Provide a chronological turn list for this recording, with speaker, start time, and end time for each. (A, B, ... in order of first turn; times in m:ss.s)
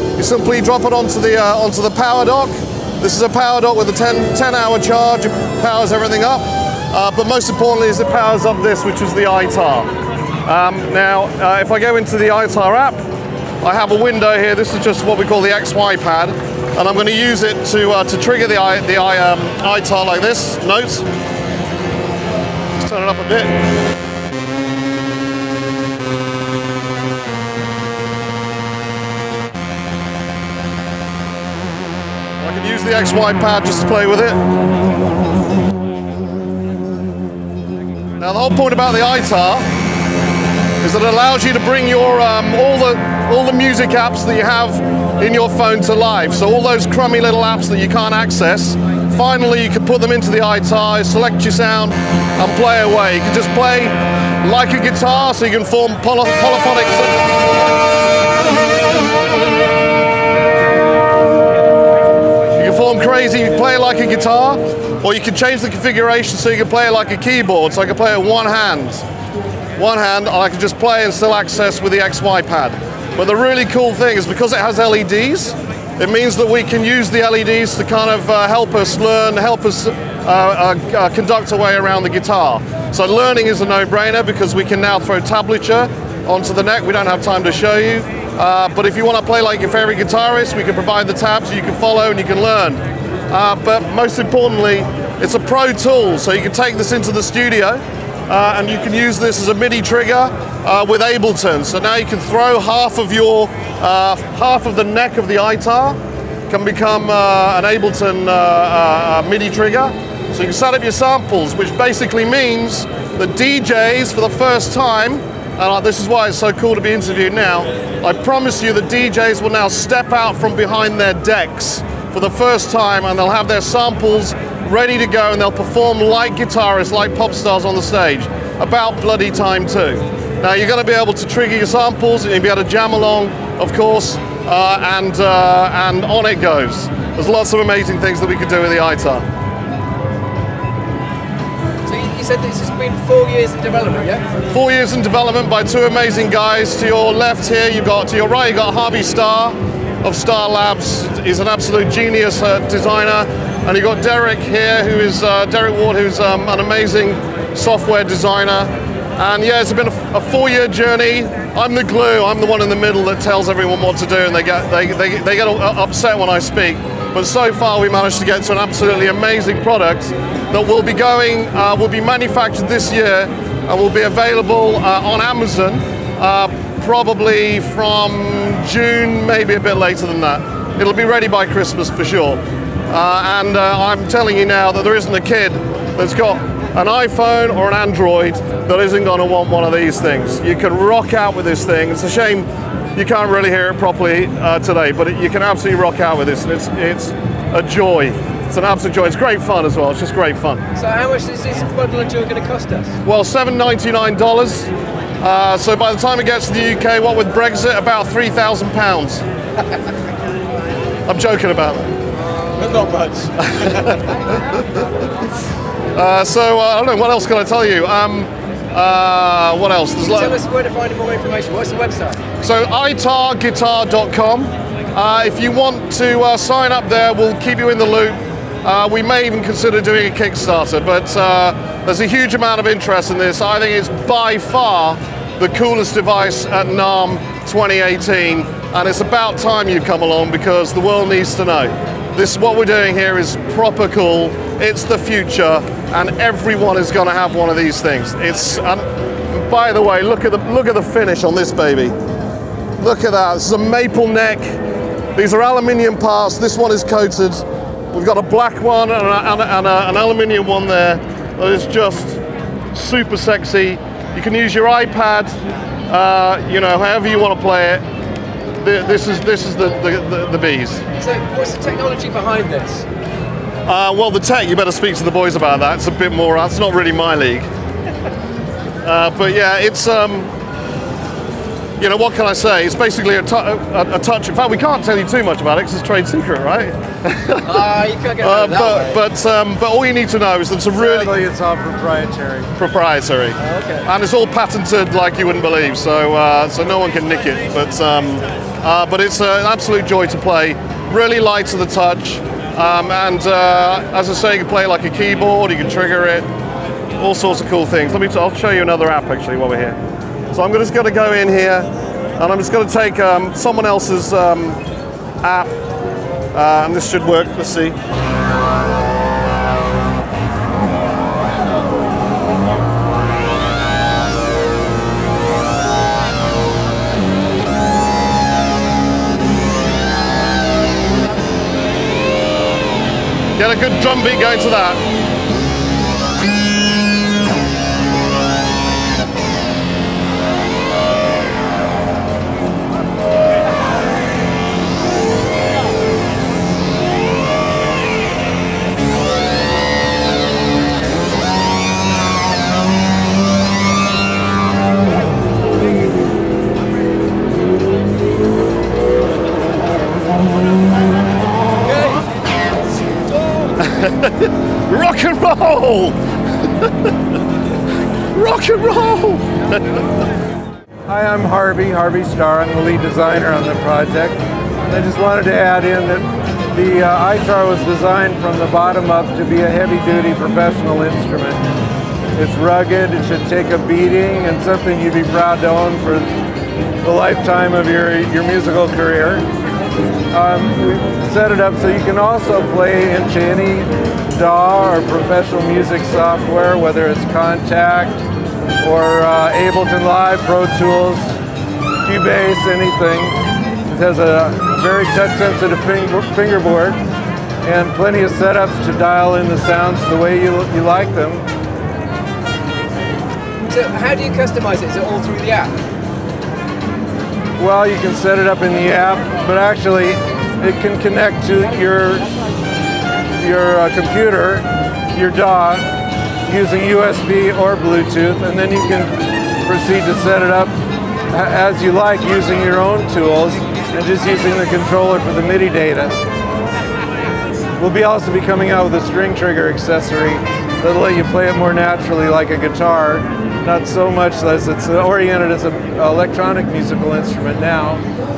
0:00.2-0:09.9 A
0:10.4-0:13.0 A
0:13.6-0:21.1 A
0:22.8-0:23.5 A
0:32.4-0:34.4 A
0:38.2-0:39.7 A
0:40.8-0:57.2 A
1:02.6-1:09.0 A
1:09.8-1:46.0 A
1:46.5-2:19.2 A
2:21.9-2:24.2 B
2:24.5-3:20.6 A
3:20.8-3:22.9 B
3:23.0-3:24.7 A
3:25.2-3:29.2 A
3:31.1-3:31.9 A
3:32.5-3:33.3 B
3:33.4-3:34.2 A
3:35.9-3:40.4 A
3:40.0-3:42.2 B
3:42.4-4:12.0 A
4:12.8-4:14.6 A
4:15.2-4:22.2 A
4:22.7-4:25.4 A
4:25.9-4:27.8 A
4:28.6-4:30.8 A
4:31.0-4:32.9 B
4:33.7-4:37.5 A
4:38.8-4:40.3 A
4:41.8-4:47.6 A
4:47.4-4:49.0 B
4:48.2-4:51.1 A
4:50.7-4:52.5 C
4:52.6-5:06.3 A
4:53.4-4:53.9 B
5:07.0-5:09.8 A
5:10.3-5:14.6 A
5:15.2-5:15.5 A
5:16.3-5:17.8 A
5:33.4-5:34.8 A
6:03.6-6:06.0 A
6:06.6-6:06.9 A
6:08.1-6:09.4 A
6:10.9-6:21.4 C
6:22.2-6:26.1 C
6:26.8-6:29.3 C
6:30.1-6:38.0 C
6:38.6-6:41.2 C
6:41.8-6:46.8 C
6:47.4-6:51.3 C
6:53.5-6:55.5 B
6:57.4-7:02.1 C
7:03.2-7:05.7 C
7:06.2-7:10.5 C
7:11.1-7:16.0 C
7:17.6-7:27.8 C